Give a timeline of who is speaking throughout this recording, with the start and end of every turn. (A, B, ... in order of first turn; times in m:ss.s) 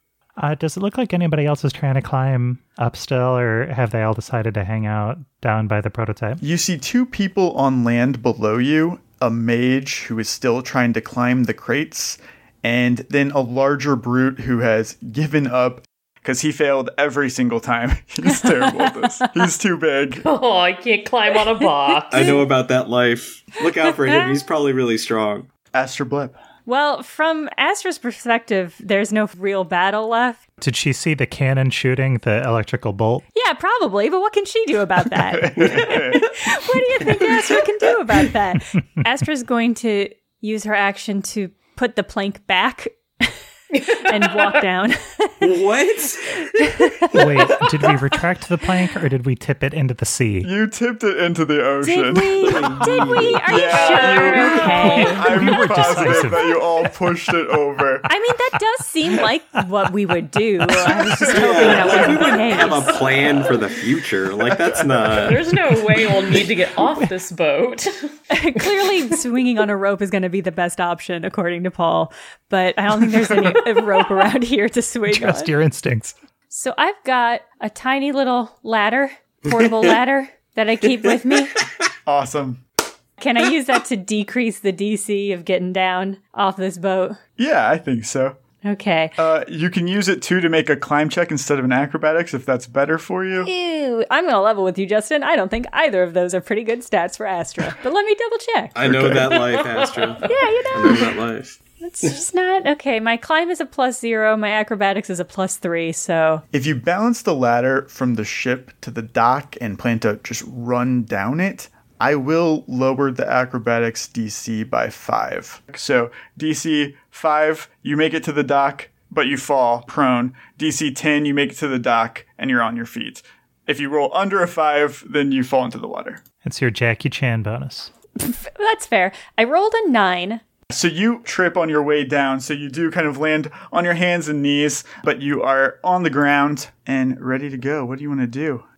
0:00.4-0:06.4 A
0:06.4-0:20.2 B
0:18.3-0:19.2 C
0:20.2-0:22.4 D
0:22.1-0:25.5 E
0:25.7-0:26.4 B
0:26.6-0:30.4 C
0:30.6-0:33.2 A
0:33.3-0:45.5 C
0:35.3-0:36.2 B
0:35.7-0:36.1 E
0:45.4-0:47.2 E
0:46.6-0:47.2 C
0:47.1-0:50.5 A
0:50.4-0:52.6 B
0:51.8-0:56.3 C
0:52.4-0:53.5 E
0:53.4-0:58.0 B
0:53.7-0:55.1 D
0:55.1-0:56.6 A
0:58.1-1:03.0 C
1:01.3-1:05.6 E
1:05.1-1:08.1 D
1:08.3-1:15.5 C
1:15.1-1:16.1 A
1:16.5-1:21.6 C
1:19.5-1:20.0 E
1:22.0-1:22.6 B
1:23.2-1:27.2 C
1:27.4-1:28.4 B
1:28.6-1:29.2 C
1:29.2-1:33.5 B
1:33.4-1:38.8 C
1:38.7-1:42.1 E
1:38.8-1:39.4 B
1:40.2-1:41.1 C
1:41.8-1:46.4 C
1:46.5-2:06.2 B
2:06.4-2:07.9 A
2:08.2-2:10.4 C
2:10.7-2:18.6 B